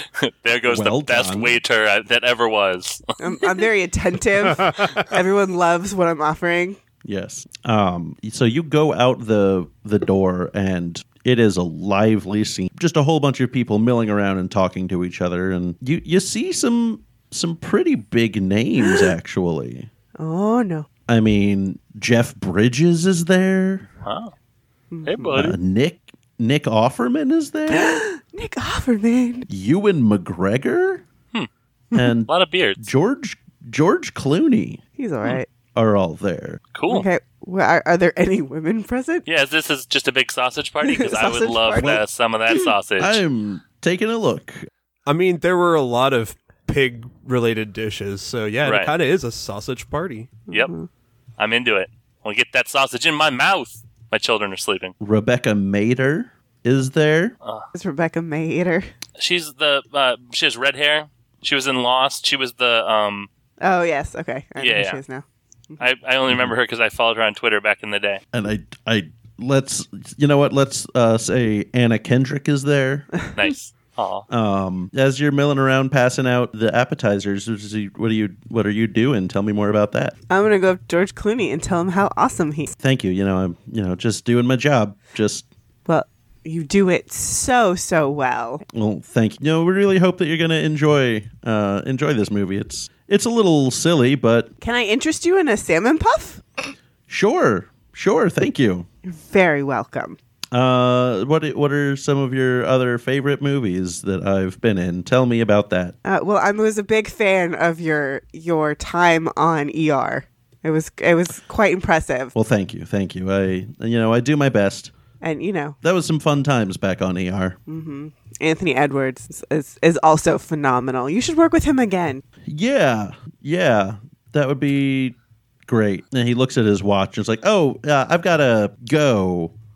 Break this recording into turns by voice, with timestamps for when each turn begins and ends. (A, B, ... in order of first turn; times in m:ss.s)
0:00.2-0:03.0 A
0:00.7-0:01.6 B
0:03.2-0:06.8 C
0:07.0-0:19.9 B
0:20.2-0:20.9 C
0:21.1-0:23.9 B
0:24.0-0:24.3 A
0:24.9-0:25.4 C
0:25.0-0:25.6 A
0:25.3-0:28.0 B
0:27.7-0:29.5 C
0:29.5-0:31.0 B
0:31.9-0:34.8 B
0:32.3-0:32.9 A
0:35.0-0:35.5 C
0:35.7-0:36.6 B
0:36.7-0:37.1 A
0:36.9-0:39.2 C
0:39.2-0:43.2 A
0:40.8-0:42.0 C
0:43.0-0:44.7 B
0:45.1-0:50.4 D
0:48.6-0:48.9 A
0:50.5-0:50.9 C
0:51.4-0:54.9 A
0:55.0-0:57.4 B
0:57.4-0:57.7 A
0:57.7-0:58.9 C
0:59.2-1:03.3 A
1:03.6-1:05.8 C
1:04.6-1:05.0 A
1:05.8-1:08.2 A
1:08.3-1:13.1 B
1:13.4-1:14.3 A
1:14.3-1:20.2 B
1:20.3-1:22.7 C
1:22.8-1:25.5 B
1:25.9-1:28.6 C
1:28.7-1:34.5 B
1:34.6-1:36.4 C
1:37.1-1:38.9 B
1:39.0-1:40.2 C
1:40.5-1:45.9 B
1:46.0-1:52.3 C
1:52.3-1:54.9 B
1:55.2-1:55.8 C
1:55.8-1:57.6 B
1:57.7-2:02.2 C
2:02.5-2:05.1 B
2:05.7-2:09.5 B